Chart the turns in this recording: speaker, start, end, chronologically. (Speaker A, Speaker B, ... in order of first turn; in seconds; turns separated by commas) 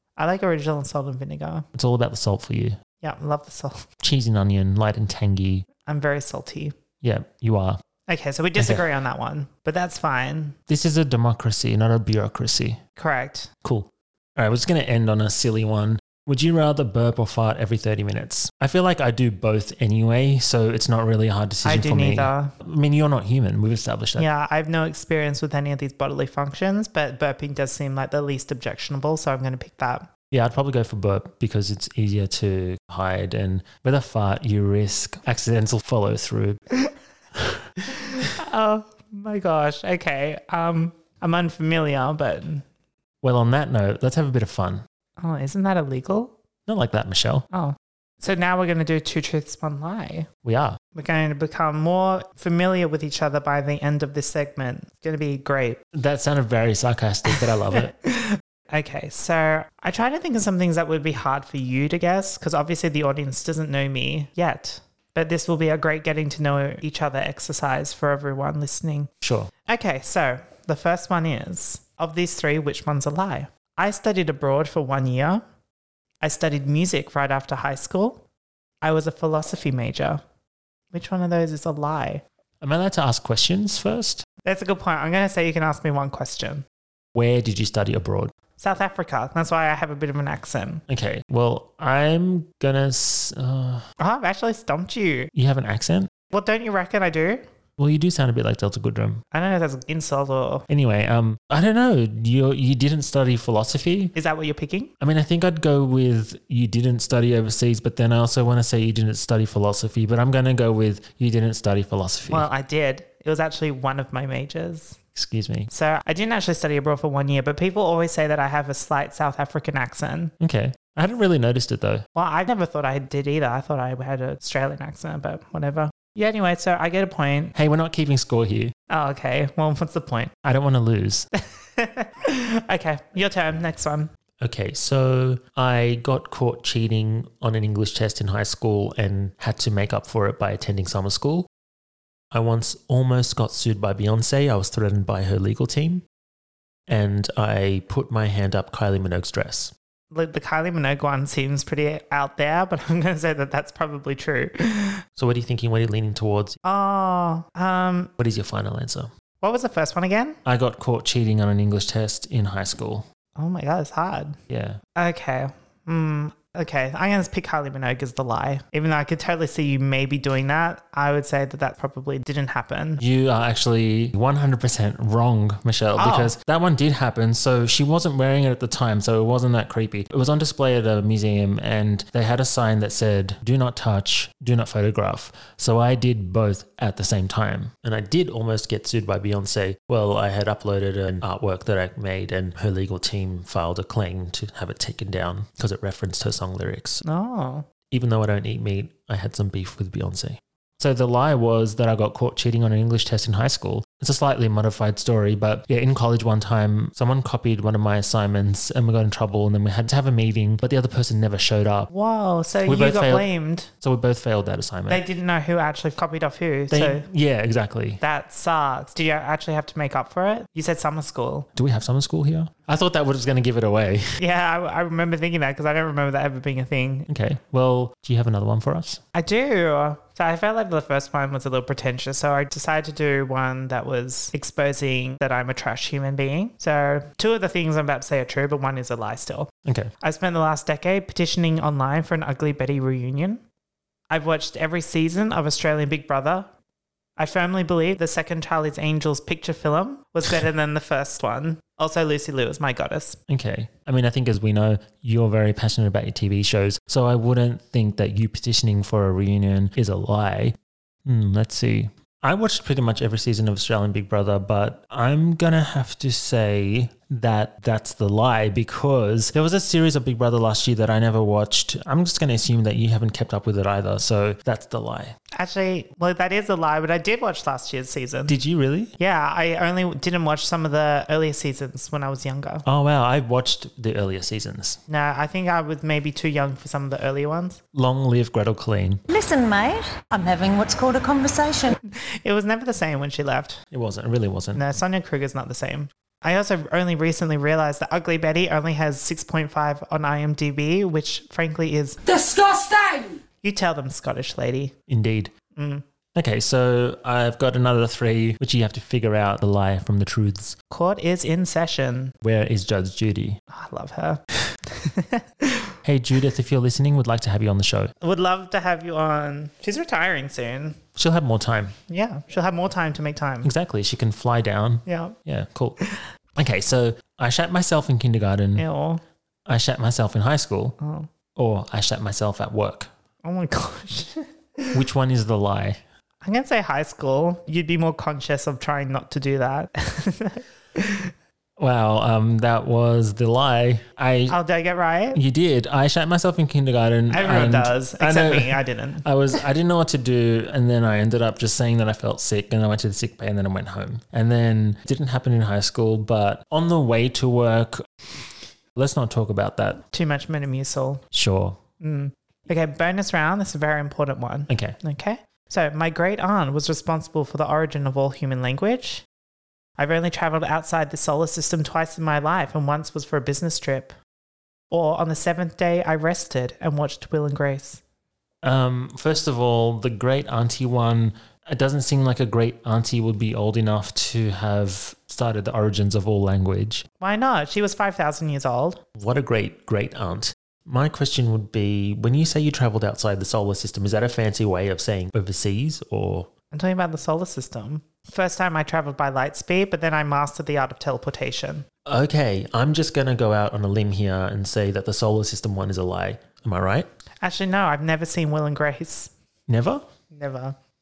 Speaker A: 0.2-1.7, Speaker B: 1.7-2.8, Speaker A: 3.0-3.9, Speaker B: 4.0-5.7, Speaker A: 5.8-6.8, Speaker B: 7.0-7.8, Speaker A: 8.1-10.6, Speaker B: 8.6-8.8, Speaker B: 10.7-12.8, Speaker A: 12.9-13.5, Speaker B: 13.6-24.3, Speaker A: 21.6-22.5, Speaker A: 24.2-30.1, Speaker B: 30.3-36.6, Speaker B: 37.4-37.6, Speaker A: 37.8-42.6, Speaker B: 43.2-44.8, Speaker A: 45.2-46.4, Speaker B: 46.7-47.5, Speaker A: 47.5-50.3, Speaker B: 50.4-50.8, Speaker A: 50.9-55.8, Speaker B: 55.9-57.9, Speaker A: 57.2-69.1, Speaker B: 69.2-69.5, Speaker A: 69.7-75.4, Speaker A: 76.2-78.2, Speaker A: 78.8-80.2, Speaker A: 80.9-82.2, Speaker B: 82.6-84.2, Speaker A: 84.4-86.7, Speaker B: 87.1-88.3, Speaker A: 88.6-90.8, Speaker B: 90.9-93.9, Speaker A: 94.0-95.3, Speaker B: 95.3-96.1, Speaker A: 96.3-97.4, Speaker B: 97.8-99.2, Speaker A: 99.3-100.7, Speaker B: 100.7-104.1, Speaker A: 104.1-104.9, Speaker B: 105.0-112.5, Speaker A: 112.3-115.0, Speaker B: 115.1-115.7, Speaker A: 115.7-120.3, Speaker B: 120.4-122.1, Speaker A: 122.1-127.5, Speaker B: 127.5-128.7, Speaker A: 128.9-130.3, Speaker B: 130.4-131.3, Speaker A: 131.5-134.1, Speaker B: 134.4-141.5, Speaker B: 142.3-146.0, Speaker B: 146.9-149.7, Speaker A: 150.1-155.0, Speaker B: 155.2-156.6, Speaker A: 156.6-158.1, Speaker B: 158.2-159.1, Speaker A: 159.4-160.4, Speaker B: 160.4-163.1, Speaker A: 163.4-164.4, Speaker B: 164.5-164.8, Speaker A: 164.9-173.0, Speaker B: 173.0-197.0, Speaker A: 176.0-176.3, Speaker A: 197.0-197.7, Speaker B: 197.9-211.9, Speaker A: 211.9-213.7, Speaker B: 212.7-213.3, Speaker B: 213.8-215.0, Speaker A: 214.9-217.1, Speaker B: 216.7-218.0, Speaker A: 218.0-221.5, Speaker B: 221.6-224.2, Speaker A: 224.2-227.1, Speaker B: 227.1-229.0, Speaker A: 229.1-239.5, Speaker B: 239.6-239.9, Speaker A: 240.0-243.4, Speaker A: 244.1-246.5, Speaker A: 247.2-253.2, Speaker B: 253.3-275.1, Speaker A: 275.4-278.4, Speaker B: 278.3-278.9, Speaker A: 279.0-282.6, Speaker B: 282.6-284.8, Speaker A: 284.9-287.6, Speaker B: 287.7-289.0, Speaker C: 289.1-291.8, Speaker A: 291.9-293.6, Speaker B: 293.7-294.6, Speaker A: 294.5-302.0, Speaker C: 302.0-303.2, Speaker A: 303.4-304.7, Speaker B: 304.9-305.3, Speaker A: 305.5-305.9, Speaker B: 306.1-310.6, Speaker A: 310.7-312.1, Speaker B: 312.2-313.4, Speaker A: 313.5-315.7, Speaker B: 315.8-317.9, Speaker A: 318.0-320.8, Speaker B: 320.9-321.8, Speaker A: 321.9-323.5, Speaker B: 323.4-325.8, Speaker A: 324.9-325.2, Speaker A: 325.8-326.1, Speaker B: 326.4-328.7, Speaker A: 328.6-329.0, Speaker B: 329.4-330.8, Speaker A: 330.8-331.1, Speaker B: 331.4-332.9, Speaker A: 333.2-334.8, Speaker B: 334.7-335.8, Speaker A: 336.2-341.1, Speaker B: 341.6-344.4, Speaker A: 344.3-345.2, Speaker B: 345.1-357.9, Speaker A: 347.1-349.1, Speaker B: 358.7-359.8, Speaker A: 359.9-361.0, Speaker B: 361.1-361.6, Speaker A: 361.8-369.0, Speaker B: 364.5-364.8, Speaker A: 369.8-373.9, Speaker A: 374.7-377.8, Speaker B: 378.4-386.9, Speaker A: 387.0-388.8, Speaker B: 388.9-396.3, Speaker A: 396.5-401.6, Speaker B: 401.9-406.9, Speaker A: 407.2-409.1, Speaker B: 409.5-409.9, Speaker A: 410.1-410.6